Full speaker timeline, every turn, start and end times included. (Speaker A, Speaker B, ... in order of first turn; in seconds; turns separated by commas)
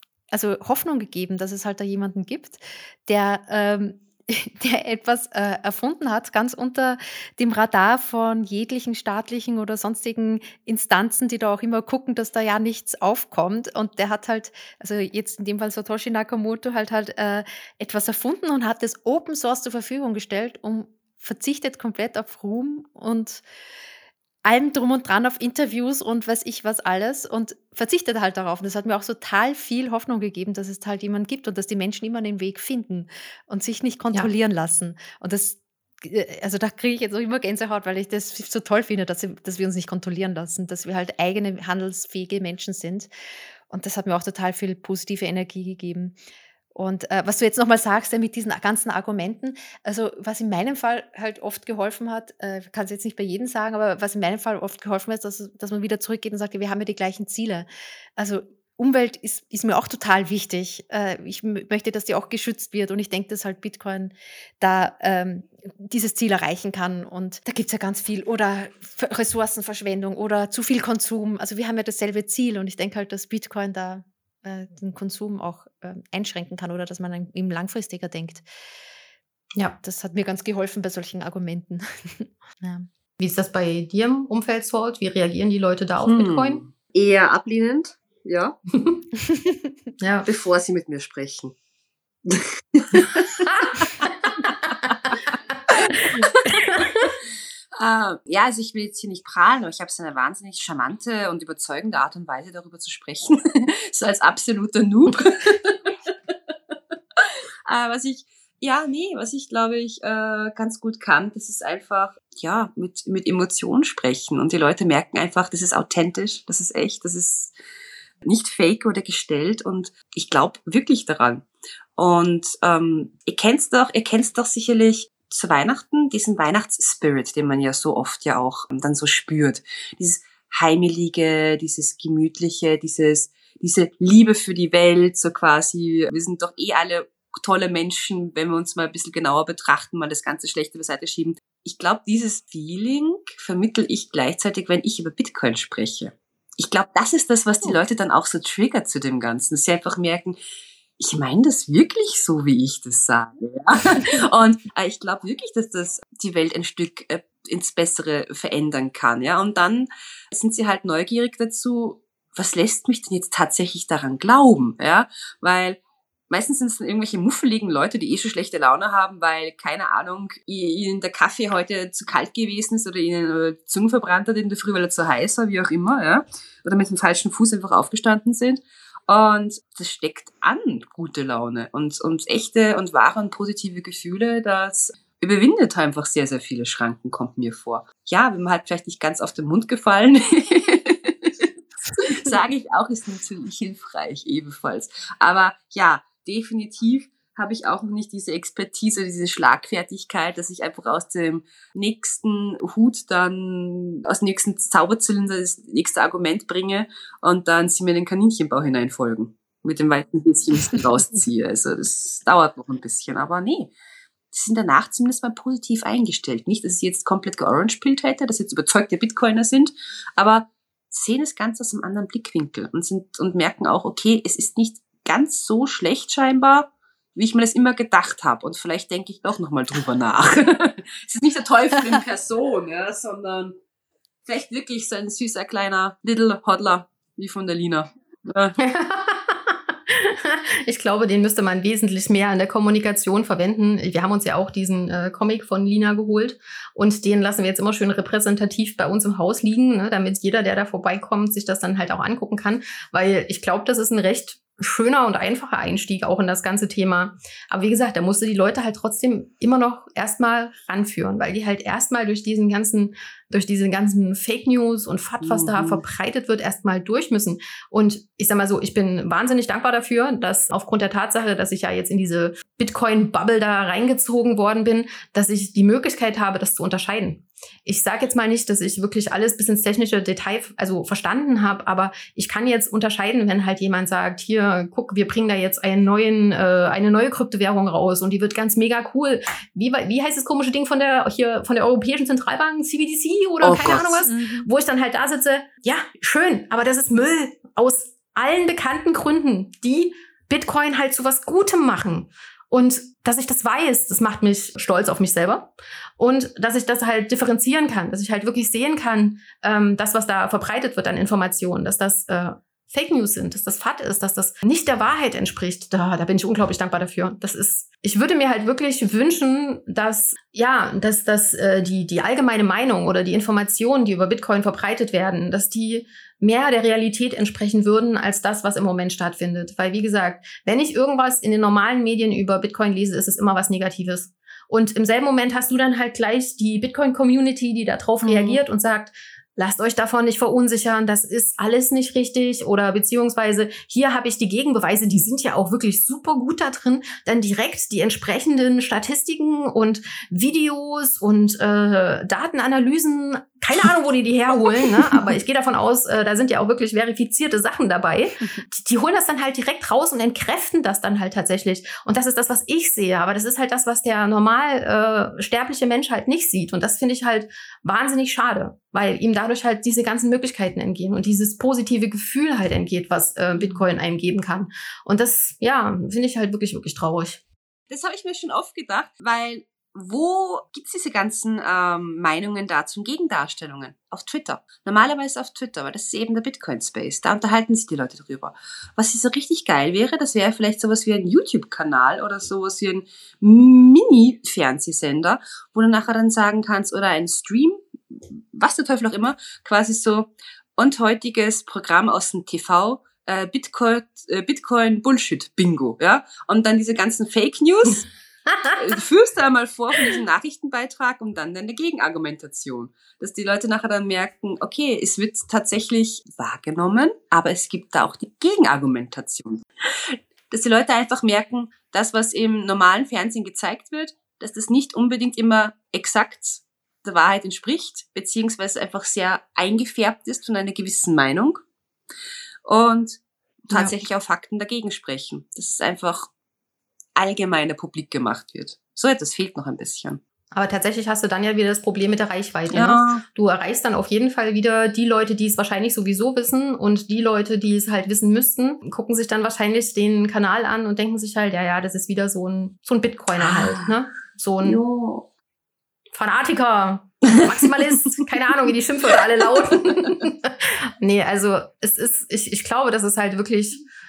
Speaker A: 0.3-23.4, Speaker A: 24.4-43.1, Speaker A: 43.7-46.2, Speaker A: 46.7-78.4, Speaker A: 79.8-82.9, Speaker B: 83.2-86.6, Speaker C: 86.0-88.5, Speaker B: 88.7-89.0, Speaker B: 90.0-90.3, Speaker C: 90.2-91.5, Speaker C: 92.2-93.9, Speaker B: 93.4-94.3, Speaker C: 95.8-96.5, Speaker B: 95.9-97.1, Speaker C: 97.8-106.3, Speaker C: 107.2-117.5, Speaker C: 118.2-121.5, Speaker C: 122.0-150.4, Speaker C: 151.0-165.8, Speaker C: 166.3-213.7, Speaker C: 214.3-233.6, Speaker C: 234.2-238.6, Speaker B: 238.6-377.2, Speaker C: 265.2-265.8, Speaker C: 293.4-294.0, Speaker A: 294.0-294.5, Speaker A: 338.0-338.4, Speaker A: 373.4-373.6, Speaker C: 377.7-407.9, Speaker B: 408.3-408.6, Speaker C: 408.5-431.4, Speaker C: 432.4-436.1, Speaker C: 436.9-440.0, Speaker B: 440.3-454.6, Speaker C: 442.5-443.0, Speaker C: 453.2-453.7, Speaker C: 454.4-455.1, Speaker B: 455.9-463.6